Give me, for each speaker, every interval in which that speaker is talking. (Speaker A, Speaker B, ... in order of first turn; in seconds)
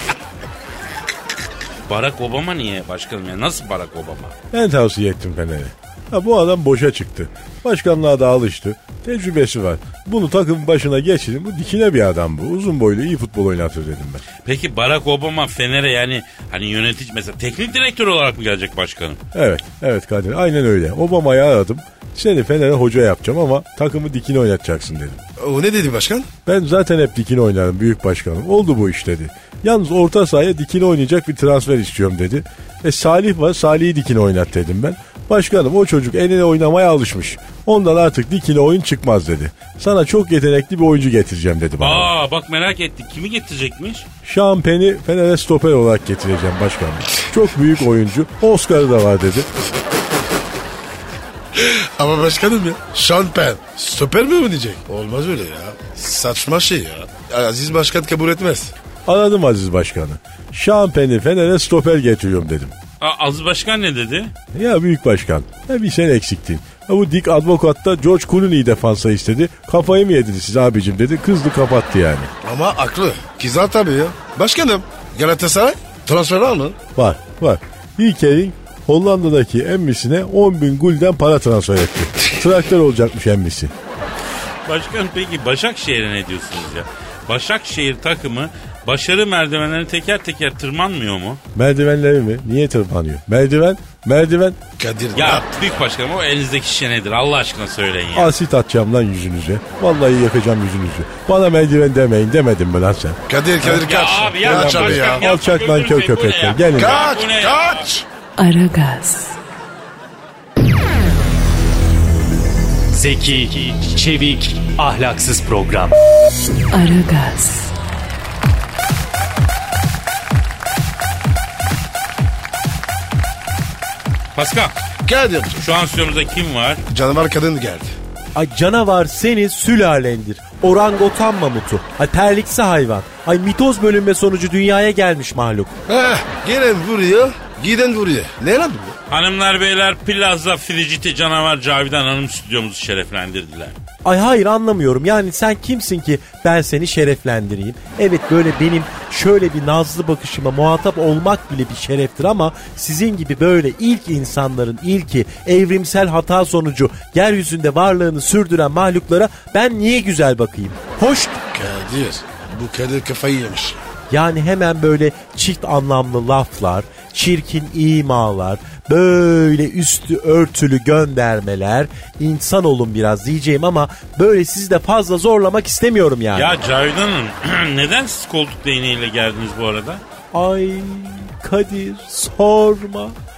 Speaker A: 1.9-4.3, 14.4-19.2, 41.8-44.0, 63.0-64.3, 84.6-91.4, 95.1-98.3, 103.6-107.9, 124.3-124.7, 125.6-126.8, 139.1-143.8, 176.3-180.0
Speaker B: 4.5-14.2, 19.3-25.2, 26.4-42.1, 44.2-49.5, 59.0-62.7, 64.5-72.3, 77.0-83.7, 91.5-94.6, 98.1-103.2, 104.4-107.0
Speaker C: 25.4-26.3, 51.5-58.7, 72.4-76.8, 94.8-95.7, 103.3-105.2, 106.8-108.0, 125.0-125.6, 126.9-127.9, 135.9-138.9, 161.5-163.8
Speaker D: 108.4-109.4, 116.7-117.7
Speaker E: 112.9-116.0
Speaker F: 128.3-135.8, 144.0-161.4, 164.1-176.6, 180.3-183.1